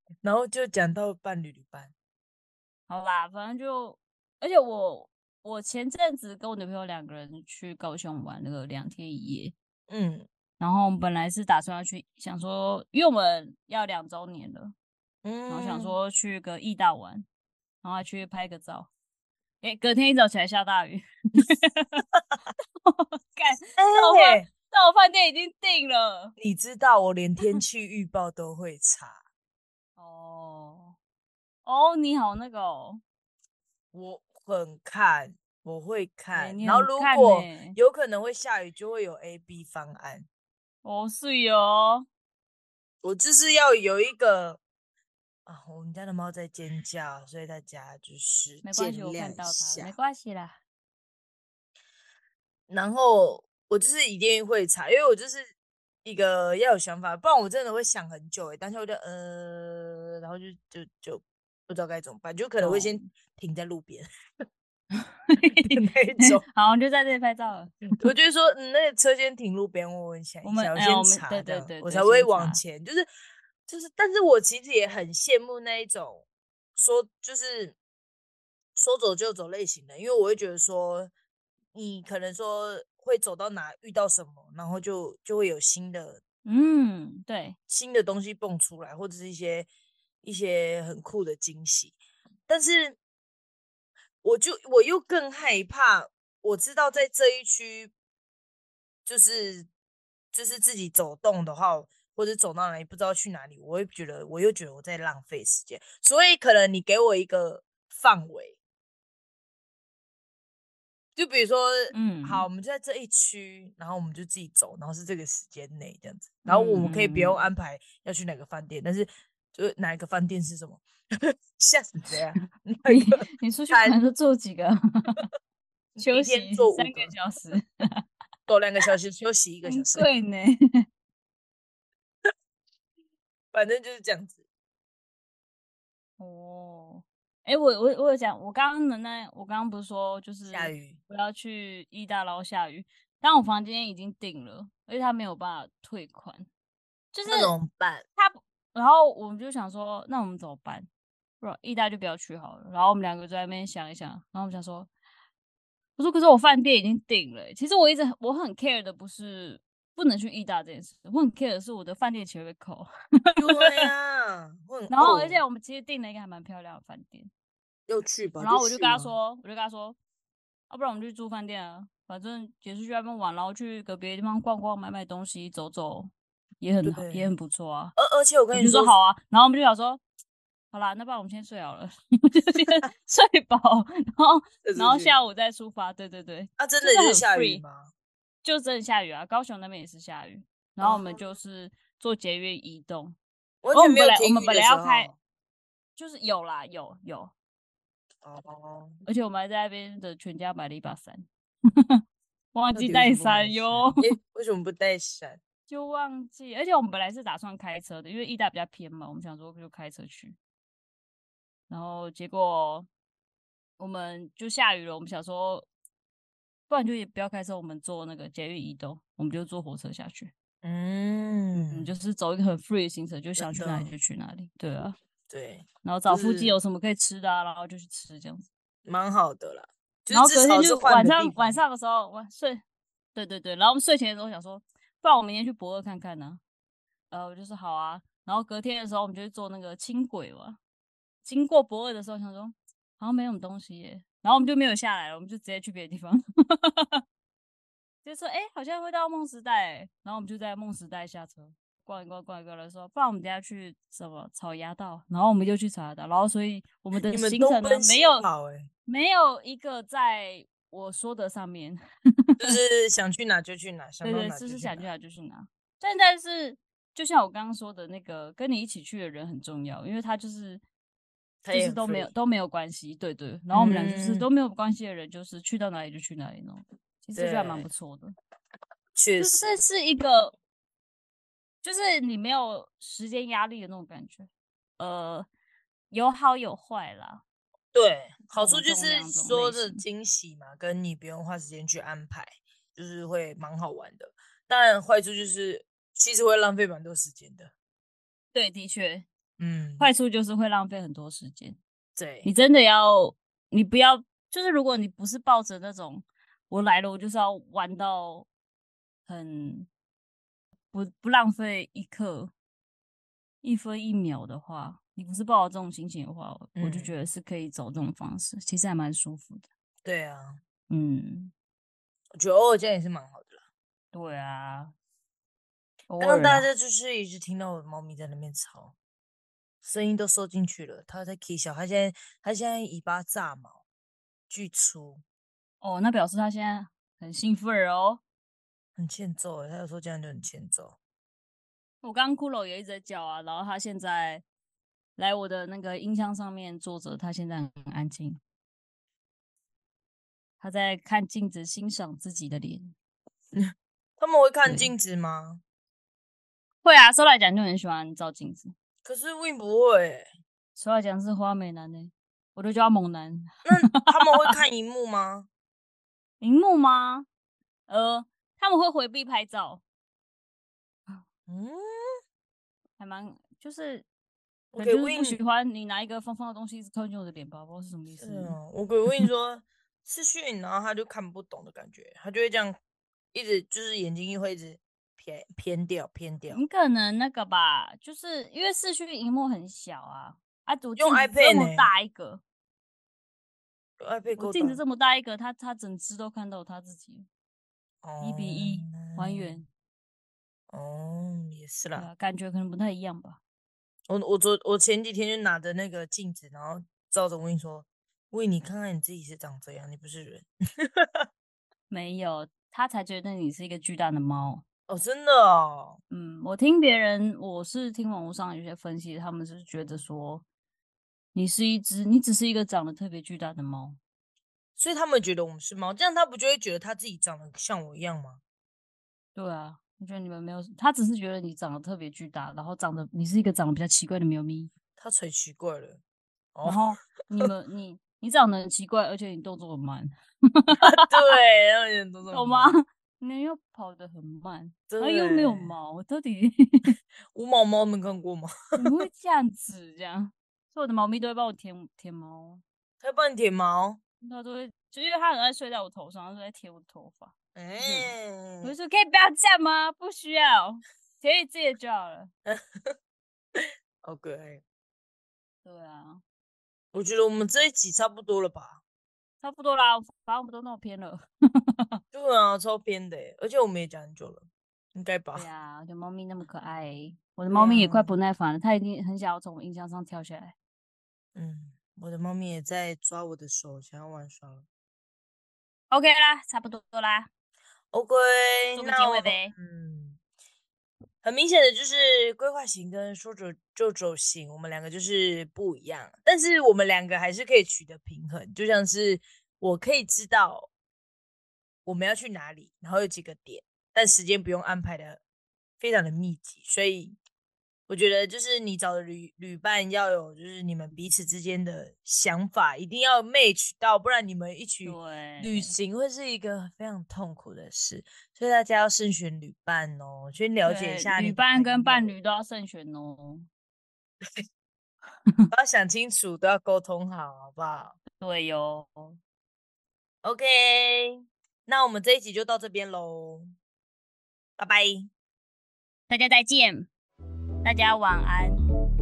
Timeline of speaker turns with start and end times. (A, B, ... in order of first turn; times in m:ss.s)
0:00.2-0:01.9 A
0:02.9-0:09.5 B
0:09.9-0:10.3 A
0:10.6-0:14.7 B
0:15.2-0:16.0 A
0:15.5-0:17.3 B
0:17.8-0:18.9 B
0:19.6-0:22.0 B
0:22.8-0:26.4 B
0:23.8-0:24.5 A
0:26.4-0:29.2 A
0:30.0-0:31.0 B
0:31.6-0:33.0 B
0:33.9-0:40.2 A
0:36.3-0:37.8 B
0:40.8-0:42.0 B
0:43.0-0:44.6 A
0:45.4-0:49.9 A
0:48.6-0:50.6 B
0:52.7-0:55.5 A
0:56.0-1:04.1 A
1:02.6-1:03.1 B
1:04.9-1:07.8 B
1:05.6-1:06.4 A
1:07.9-1:13.1 A
1:10.4-1:12.6 B
1:13.7-1:17.8 A
1:18.7-1:21.1 A
1:21.7-1:26.2 A
1:26.4-1:27.6 B
1:27.7-1:29.7 A
1:30.2-1:33.0 A
1:34.2-1:37.9 A
1:39.0-1:39.7 A
1:40.3-1:48.6 A
1:51.2-2:04.0 A
1:51.9-1:52.5 B
1:56.4-1:57.4 B
2:02.8-2:05.2 B
2:06.0-2:07.1 A
2:06.0-2:07.7 B
2:08.5-2:10.1 A
2:09.6-2:10.8 B
2:13.5-2:14.4 A
2:16.2-2:26.5 B
2:20.5-2:21.0 A
2:27.1-2:27.5 B
2:27.2-2:28.0 A
2:28.2-2:30.9 B
2:31.4-2:34.9 B
2:36.0-2:43.8 B
2:43.4-2:45.4 A
2:44.9-2:47.3 B
2:47.9-2:49.2 A
2:48.4-2:50.0 B
2:50.7-2:58.0 B
2:56.8-2:57.3 A
2:58.0-2:58.9 A
2:58.5-3:00.0 B
3:00.7-3:07.6 B
3:04.6-3:05.2 A
3:06.6-3:07.9 A
3:08.4-3:13.2 B
3:10.8-3:11.2 A
3:13.6-3:15.2 A
3:13.7-3:15.1 B
3:16.0-3:17.3 B
3:18.2-3:19.0 A
3:19.0-3:21.3 B
3:22.5-3:24.1 B
3:22.7-3:25.4 A
3:25.7-3:30.4 B
3:31.7-3:32.9 B
3:33.8-3:35.7 B
3:36.7-3:40.3 B
3:40.6-3:41.9 A
3:41.5-3:45.0 B
3:43.4-3:43.9 A
3:45.3-3:46.6 A
3:45.8-3:48.5 B
3:48.8-3:51.6 A
3:50.1-3:52.6 B
3:53.1-3:56.4 B
3:57.1-4:00.6 B
4:01.2-4:07.0 B
4:08.0-4:18.2 B
4:17.1-4:18.7 A
4:18.8-4:21.8 B
4:22.4-4:24.9 A
4:24.0-4:30.6 B
4:31.4-4:32.1 A
4:31.5-4:38.1 B
4:33.5-4:34.3 A
4:37.1-4:37.7 A
4:38.9-4:39.5 A
4:39.2-4:40.3 B
4:41.6-4:45.3 B
4:45.9-4:47.2 B
4:47.7-4:57.5 A
4:48.3-4:49.8 B
4:58.3-4:59.1 B
4:59.4-4:59.9 A
4:59.8-5:01.6 B
5:02.0-5:02.3 A
5:02.2-5:08.3 B
5:09.0-5:09.7 B
5:10.7-5:12.3 B
5:13.4-5:19.5 B
5:16.6-5:16.9 A
5:19.8-5:20.4 A
5:20.7-5:21.3 B
5:22.2-5:23.4 A
5:23.9-5:24.7 B
5:25.9-5:26.5 B
5:26.0-5:28.7 A
5:29.6-5:33.6 A
5:34.3-5:35.0 A
5:35.6-5:38.0 B
5:38.8-5:40.8 A
5:41.8-5:44.2 B
5:45.0-5:48.2 B
5:50.4-5:52.7 B
5:53.3-5:55.4 A
5:54.4-5:54.7 B
5:56.6-5:58.5 B
5:58.8-6:00.1 A
6:00.6-6:04.3 B
6:03.4-6:05.3 A
6:06.2-6:07.1 B
6:07.7-6:09.6 B
6:11.3-6:11.9 A
6:12.8-6:13.8 B
6:14.5-6:15.2 A
6:14.6-6:18.4 B
6:18.0-6:22.6 A
6:23.1-6:26.4 A
6:26.3-6:32.2 B
6:30.8-6:31.7 A
6:33.8-6:34.6 A
6:34.1-6:37.1 B
6:37.8-6:39.4 A
6:38.0-6:39.5 B
6:40.5-6:41.9 A
6:41.7-6:43.2 B
6:43.9-6:51.0 A
6:51.7-6:54.4 B
6:54.7-6:55.8 A
6:55.9-7:00.2 B
7:01.1-7:03.8 B
7:04.6-7:08.2 A
7:09.1-7:14.5 B
7:14.8-7:15.8 A
7:16.3-7:17.3 A
7:16.4-7:21.1 B
7:20.6-7:22.6 A
7:22.1-7:26.7 B
7:24.7-7:25.5 A
7:27.1-7:28.7 A
7:28.6-7:32.4 B
7:32.8-7:33.8 A
7:34.0-7:42.1 B
7:37.3-7:38.5 A
7:42.2-7:42.7 A
7:43.3-7:44.4 A
7:45.4-7:46.0 B
7:46.7-7:48.6 A
7:49.2-7:51.8 B
7:51.9-7:55.2 A
7:55.1-8:00.3 B
7:57.3-7:57.9 A
8:01.1-8:04.4 A
8:05.7-8:07.1 B
8:07.7-8:10.0 A
8:08.5-8:09.3 B
8:11.0-8:20.5 A
8:21.6-8:25.0 A
8:25.6-8:27.0 A
8:27.7-8:41.9 A
8:34.6-8:35.6 B
8:40.4-8:43.3 B
8:45.3-8:47.8 A
8:48.0-8:49.0 B
8:50.0-8:53.3 A
8:54.4-8:54.9 A
8:55.9-8:56.7 B
8:57.4-8:58.4 B